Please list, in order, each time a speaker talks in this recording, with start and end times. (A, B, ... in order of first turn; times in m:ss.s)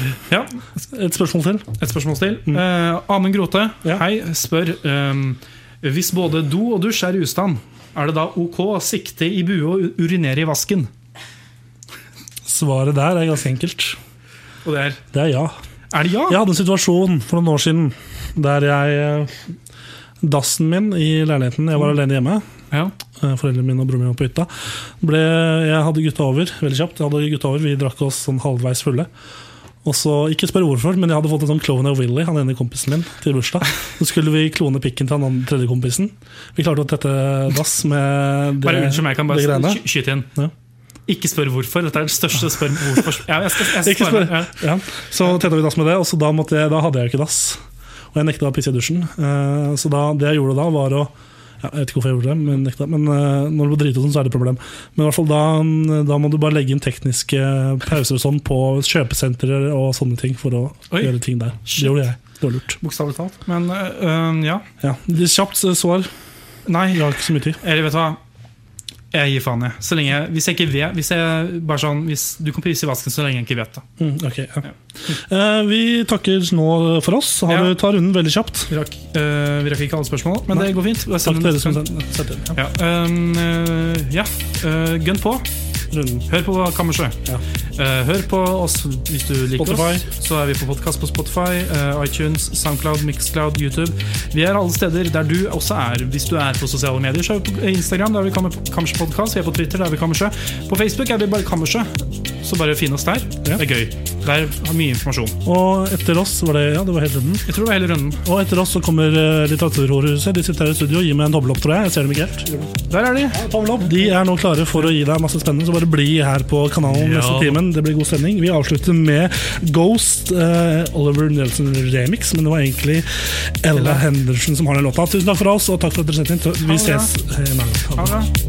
0:00.3-0:00.6 A
0:00.9-0:01.7 B
0:01.8-0:10.9 A
0:12.4-0:14.0 B
0:14.6-0:15.0 A
0:15.1-0:15.6 B
0:15.9-0:16.4 A
0:16.3-0:19.4 B
0:20.2-0:22.4 B
0:23.2-0:29.1 B
0:29.8-0:40.5 B
0:38.6-0:40.3 A
0:41.1-0:44.6 A
0:43.6-0:47.6 B
0:48.1-1:02.8 B
1:00.9-1:02.0 A
1:02.8-1:04.7 A
1:04.8-1:06.1 B
1:06.7-1:07.1 A
1:06.9-1:07.6 B
1:07.6-1:08.2 A
1:09.1-1:13.9 A
1:14.0-1:18.7 B
1:17.5-1:17.8 A
1:18.7-1:21.9 A
1:20.5-1:22.6 B
1:22.5-1:25.5 A
1:25.9-1:26.3 B
1:26.3-1:27.2 A
1:27.8-1:45.4 A
1:29.6-1:30.0 B
1:45.4-1:47.5 B
1:47.4-1:48.2 A
1:48.2-1:52.8 B
1:52.9-1:53.5 A
1:53.3-2:08.2 B
1:56.9-1:57.6 A
2:03.7-2:04.0 A
2:06.6-2:07.1 A
2:08.0-2:08.3 A